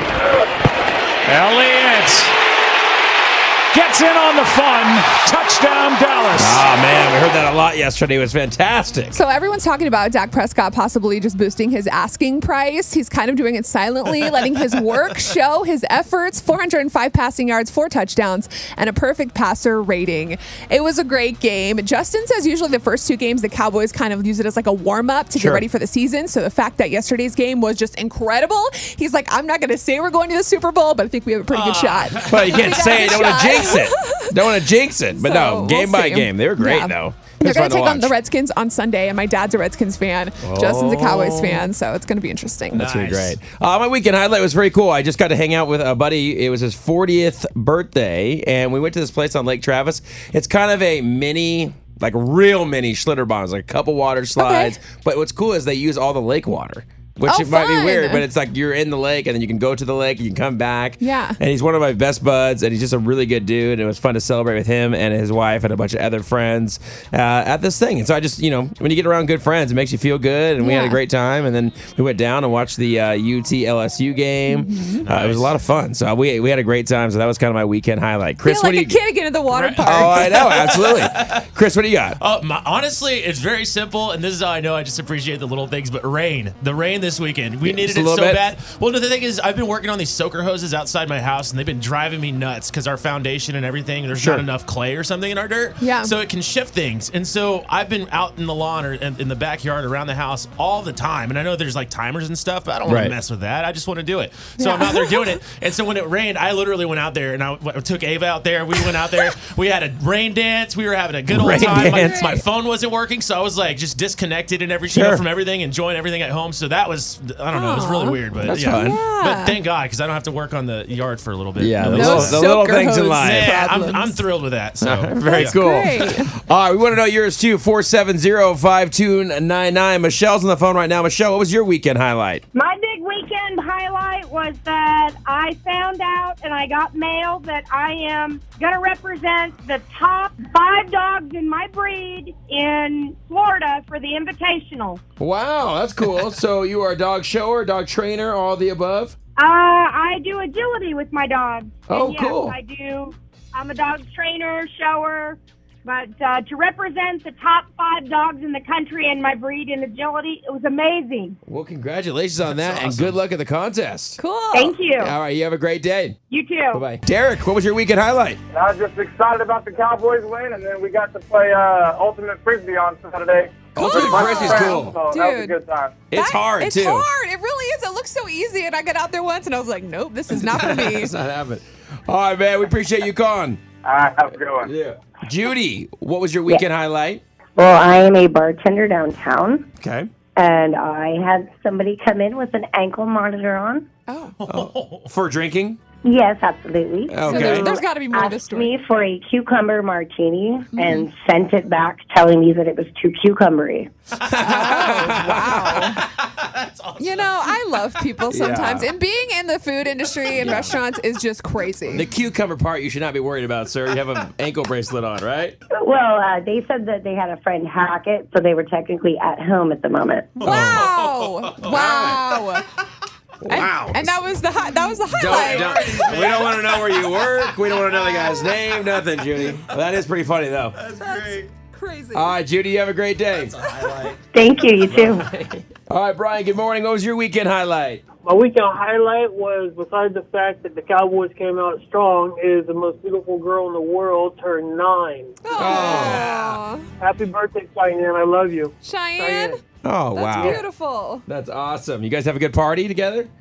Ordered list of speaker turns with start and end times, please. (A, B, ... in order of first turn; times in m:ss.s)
0:01.2-0:02.3 A
0:03.7-0:06.6 A
0:06.3-0:09.2 B
0:09.1-0:42.8 C
0:25.4-0:25.6 B
0:31.5-0:33.2 D
0:32.2-0:38.1 B
0:40.4-0:41.6 B
0:42.7-1:19.0 B
0:42.7-0:43.4 D
0:54.4-0:54.8 C
0:57.2-0:58.2 C
1:01.0-1:01.4 C
1:10.6-1:11.0 C
1:14.5-1:15.0 C
1:15.0-1:15.5 D
1:18.4-1:20.6 C
1:19.5-1:21.4 D
1:19.8-1:22.2 B
1:22.2-2:02.5 D
1:27.6-1:28.4 B
1:34.2-1:34.4 B
1:35.8-1:36.1 C
1:42.8-1:43.1 B
1:44.6-1:45.4 C
1:51.3-1:52.2 B
1:51.7-1:52.4 C
1:54.9-1:55.2 B
1:57.5-1:59.6 C
1:58.5-1:59.0 B
2:01.6-2:03.5 B
2:01.8-2:04.2 C
2:03.2-2:05.6 D
2:04.8-2:12.4 B
2:05.2-2:06.3 C
2:12.5-2:25.0 E
2:25.2-2:29.2 B
2:29.4-2:41.4 E
2:31.9-2:32.6 B
2:41.5-2:44.2 B
2:42.4-2:43.2 D
2:44.2-2:44.8 C
2:44.5-2:45.1 E
2:45.0-2:46.2 B
2:46.3-2:46.8 E
2:46.7-2:48.4 B
2:48.5-2:56.0 F
2:53.7-2:54.9 B
2:53.7-2:55.6 C
2:56.1-2:57.1 B
2:56.1-3:01.1 C
3:00.3-3:03.6 B
3:03.8-3:04.7 F
3:04.3-3:07.2 B
3:07.6-3:09.7 G
3:09.8-3:10.1 B
3:10.4-3:13.8 G
3:14.1-3:14.3 C
3:14.4-3:15.1 D
3:14.5-3:15.8 B
3:16.0-3:23.9 G
3:17.1-3:17.7 B
3:17.2-3:18.7 C
3:20.7-3:21.1 C
3:24.3-3:25.9 B
3:24.3-3:28.0 D
3:24.4-3:26.0 C
3:27.0-3:32.0 C
3:28.3-3:28.9 B
3:30.3-3:30.8 D
3:31.9-3:35.6 B
3:35.7-3:40.4 G
3:40.4-3:41.6 D
3:40.4-3:42.6 C
3:41.6-3:42.2 B
3:43.4-3:44.2 B
3:43.5-3:46.2 C
3:45.1-3:48.0 D
3:45.2-3:50.8 B
3:50.9-3:51.5 D
3:50.9-3:52.4 C
3:52.1-3:53.5 B
3:53.4-3:54.2 D
3:53.6-3:54.0 C
3:54.3-3:55.3 G
3:54.9-3:58.0 B
3:58.2-4:05.7 H
4:05.4-4:06.8 C
4:05.5-4:06.3 B
4:07.0-4:09.5 H
4:08.8-4:09.6 C
4:09.8-4:10.6 B
4:10.1-4:11.2 C
4:11.3-4:13.3 B